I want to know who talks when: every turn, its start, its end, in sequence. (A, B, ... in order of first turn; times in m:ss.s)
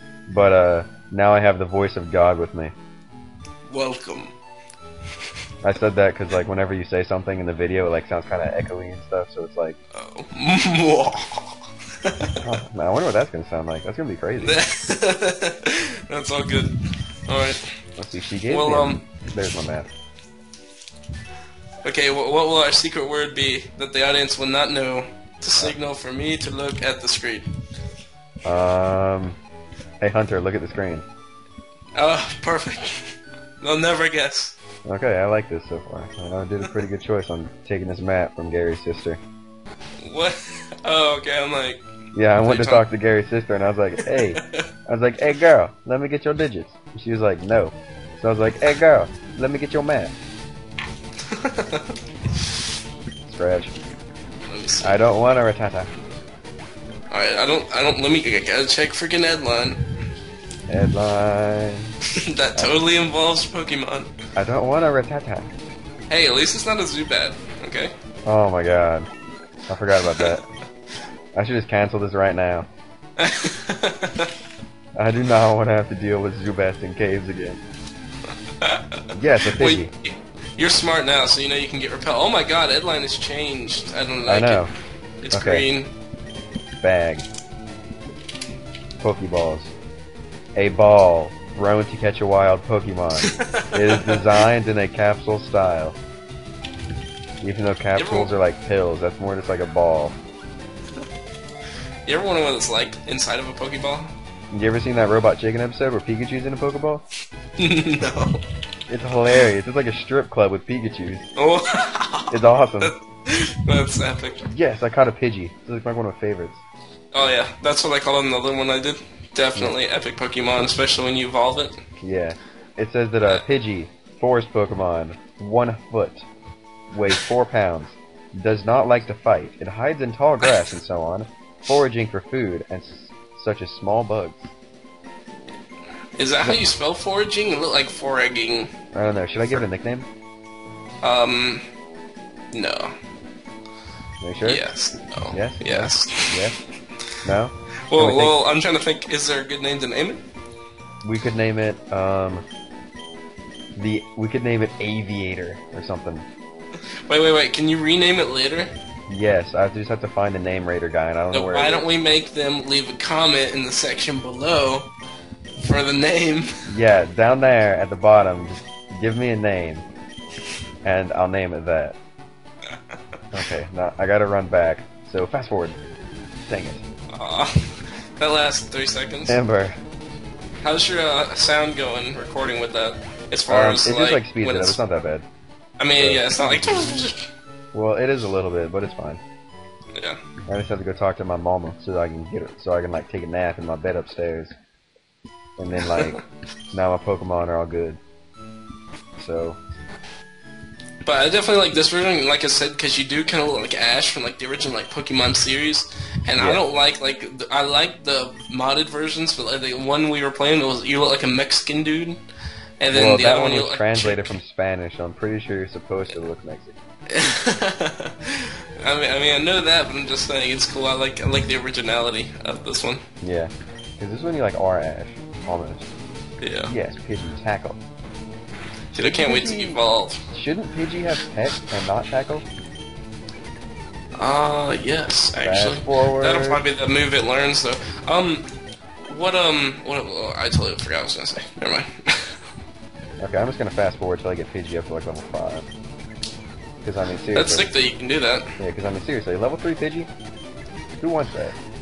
0:00.3-0:02.7 A
0:03.7-0:04.3 B
0:05.6-0:09.8 A
0:09.9-0:12.4 B
0:12.4-0:14.6 A
0:14.4-0:16.8 B
0:17.3-0:17.6 B
0:18.0-0:19.9 A
0:18.5-0:19.0 B
0:21.8-0:27.5 B
0:28.4-0:29.4 A
0:30.0-0:31.0 A
0:32.0-0:34.5 B
0:34.8-0:39.2 A
0:40.0-0:41.8 B
0:42.1-0:50.1 A
0:42.4-0:42.8 B
0:44.0-0:44.6 B
0:51.3-0:51.9 B
0:53.2-0:53.7 A
0:54.5-0:55.0 B
0:54.8-0:55.9 A
0:57.1-0:59.8 B
1:00.7-1:02.0 A
1:02.1-1:04.1 B
1:04.4-1:05.6 A
1:06.1-1:07.9 B
1:08.2-1:09.1 A
1:09.7-1:10.4 A
1:10.1-1:10.4 B
1:11.3-1:12.7 A
1:13.2-1:14.3 B
1:15.0-1:17.6 A
1:19.1-1:19.9 A
1:19.5-1:24.6 B
1:24.2-1:24.7 A
1:25.2-1:25.9 B
1:25.3-1:25.6 A
1:26.8-1:27.3 A
1:29.0-1:29.7 A
1:30.6-1:36.0 A
1:33.2-1:34.2 B
1:37.4-1:40.2 A
1:37.9-1:38.3 B
1:42.0-1:44.1 B
1:44.5-1:47.0 A
1:47.6-1:48.4 B
1:48.9-1:51.3 A
1:51.4-1:54.5 B
1:52.3-1:52.9 A
1:54.4-1:56.6 A
1:57.1-2:01.8 B
2:02.0-2:06.2 A
2:06.9-2:14.5 A
2:16.2-2:18.7 B
2:18.9-2:20.1 A
2:21.0-2:21.6 B
2:22.5-2:22.9 B
2:24.2-2:24.6 A
2:24.4-2:26.5 B
2:25.3-2:26.6 A
2:27.2-2:28.4 A
2:27.9-2:30.2 B
2:31.0-2:32.4 A
2:33.8-2:36.3 A
2:37.1-2:38.7 B
2:39.1-2:41.9 A
2:41.3-2:44.9 B
2:45.6-2:46.5 B
2:46.6-2:49.8 A
2:50.8-2:52.0 A
2:53.3-2:55.8 A
2:56.5-2:56.8 A
2:57.1-2:59.4 B
2:59.3-2:59.8 A
3:00.6-3:04.8 B
3:03.5-3:05.2 A
3:05.8-3:07.3 B
3:06.0-3:07.1 A
3:07.7-3:09.2 A
3:10.5-3:14.5 A
3:15.6-3:18.0 A
3:19.2-3:19.6 A
3:21.0-3:32.2 B
3:26.4-3:26.6 A
3:32.8-3:34.3 B
3:32.9-3:36.8 A
3:37.1-3:43.0 B
3:43.2-3:45.9 A
3:46.4-3:46.7 B
3:46.7-3:47.8 A
3:48.9-3:50.2 B
3:49.0-3:52.4 A
3:54.2-3:58.4 B
3:55.4-3:56.6 A
3:59.1-4:02.4 B
4:03.2-4:05.6 A
4:06.8-4:07.7 A
4:07.3-4:08.5 B
4:08.6-4:10.1 A
4:11.0-4:11.6 A